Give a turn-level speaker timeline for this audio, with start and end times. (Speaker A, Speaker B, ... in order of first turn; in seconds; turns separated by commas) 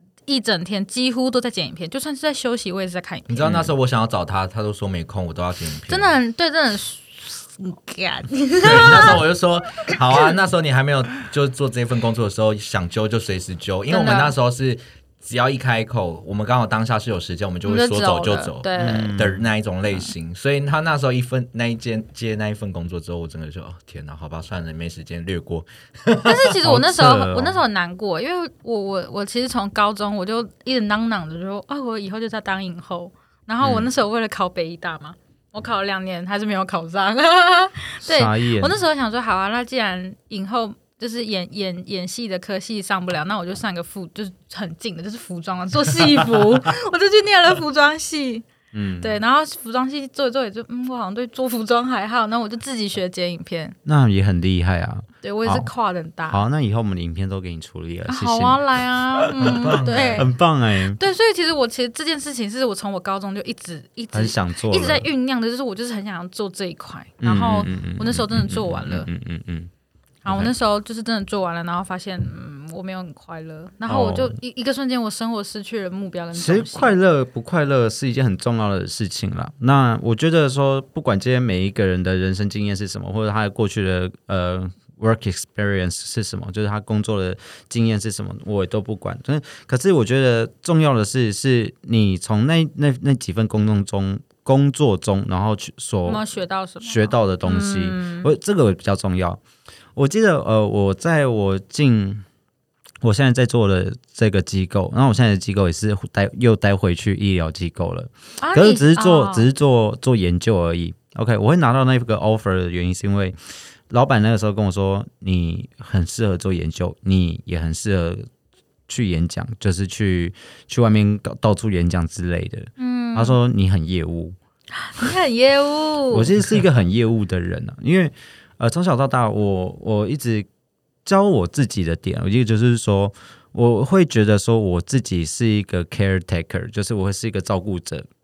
Speaker A: 0.3-3.5, Speaker B: 3.3-6.1, Speaker C: 3.4-3.7, Speaker A: 5.9-9.2, Speaker B: 8.6-26.4, Speaker A: 13.9-14.3, Speaker A: 17.6-19.1, Speaker C: 18.8-19.5, Speaker A: 26.2-48.5, Speaker C: 26.6-27.6, Speaker C: 33.6-33.9, Speaker C: 38.0-38.7, Speaker C: 48.7-49.1, Speaker A: 49.0-53.8, Speaker C: 53.8-55.7, Speaker A: 55.2-56.4, Speaker C: 56.3-58.6, Speaker A: 58.1-60.3, Speaker C: 59.2-61.0, Speaker B: 59.4-60.3, Speaker A: 60.9-69.1, Speaker C: 64.1-65.1, Speaker C: 67.2-69.7, Speaker A: 70.2-76.9, Speaker C: 70.2-70.5, Speaker C: 73.9-74.4, Speaker C: 76.3-96.2, Speaker A: 96.0-98.3, Speaker C: 96.8-99.4, Speaker C: 99.9-102.2, Speaker C: 103.0-113.3, Speaker A: 108.4-109.5, Speaker C: 113.9-118.2, Speaker C: 118.9-124.4, Speaker A: 122.8-123.4, Speaker A: 124.7-126.3, Speaker C: 126.1-130.5, Speaker C: 131.0-138.1